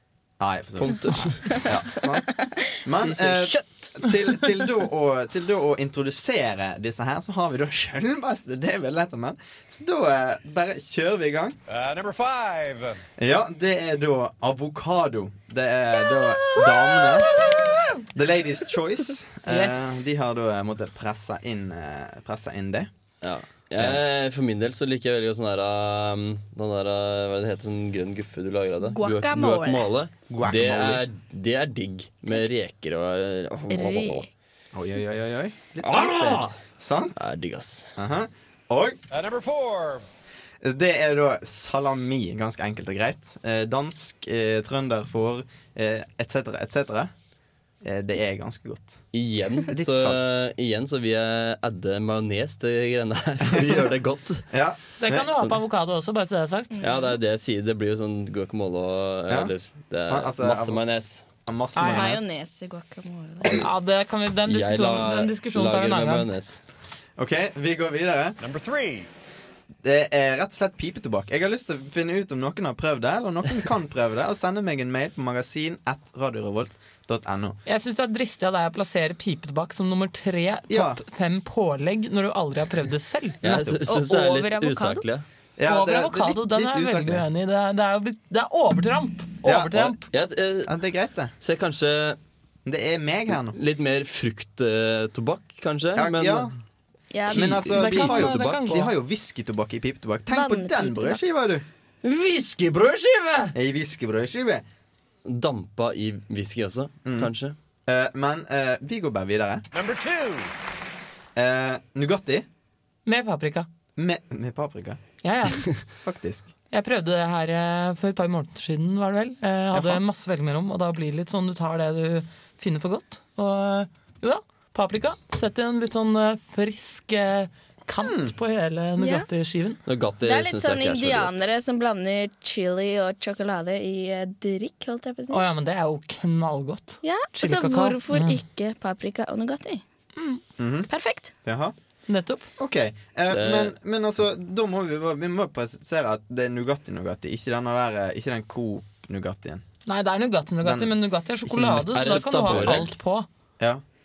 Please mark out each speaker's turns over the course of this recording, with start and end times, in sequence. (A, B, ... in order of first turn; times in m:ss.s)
0:00.4-0:11.6 A
0:00.8-0:01.8 B
0:02.4-0:04.1 C
0:11.7-0:13.0 D
0:13.2-0:17.3 A
0:16.0-0:17.9 E
0:18.1-0:22.9 A
0:19.5-0:20.0 E
0:23.2-0:34.3 B
0:28.8-0:29.9 C
0:30.3-0:31.0 A
0:33.7-0:34.3 C
0:34.7-0:37.2 A
0:35.8-0:36.6 B
0:37.2-0:37.9 B
0:38.0-0:39.0 A
0:39.1-0:40.0 D
0:40.6-0:47.1 A
0:47.8-0:49.0 A
0:49.1-0:54.5 B
0:49.7-0:50.4 A
0:53.6-0:53.9 A
0:54.5-0:55.5 A
0:55.0-0:56.8 E
0:56.8-1:01.2 B
0:59.3-1:00.8 A
1:01.4-1:02.2 A
1:01.8-1:02.1 E
1:01.8-1:03.6 C
1:03.5-1:06.3 E
1:04.5-1:06.6 B
1:07.2-1:08.4 A
1:08.4-1:09.1 D
1:09.8-1:17.6 A
1:17.7-1:23.4 E
1:20.7-1:21.0 A
1:23.4-1:25.3 B
1:23.4-1:23.8 A
1:23.8-1:25.1 C
1:25.6-1:27.2 A
1:25.7-1:30.0 E
1:29.4-1:30.0 A
1:29.7-1:30.8 B
1:30.6-1:31.3 A
1:31.4-1:32.2 B
1:32.6-1:33.6 A
1:33.3-1:36.5 B
1:35.9-1:36.6 A
1:37.1-1:38.0 C
1:37.3-1:41.6 A
1:37.4-1:38.6 B
1:37.7-1:38.9 E
1:40.3-1:41.2 C
1:42.0-1:43.6 B
1:43.5-1:44.6 A
1:45.2-1:47.6 B
1:47.0-1:47.3 A
1:47.9-1:49.6 A
1:49.7-1:50.5 D
1:51.4-1:52.4 A
1:53.1-1:53.7 E
1:54.0-1:55.0 A
1:55.2-1:55.8 E
1:56.0-1:56.5 A
1:56.7-2:09.8 E
1:59.7-2:00.0 A
2:08.0-2:08.3 A
2:09.0-2:09.3 C
2:09.8-2:11.5 B
2:10.2-2:15.4 C
2:15.3-2:18.4 E
2:17.0-2:19.8 C
2:20.2-2:20.4 E
2:20.6-2:20.9 A
2:20.9-2:21.3 C
2:21.4-2:21.7 A
2:22.1-2:22.5 E
2:22.6-2:29.6 A
2:23.3-2:23.8 B
2:29.9-2:33.3 E
2:30.6-2:30.9 A
2:31.5-2:32.9 A
2:31.8-2:32.9 B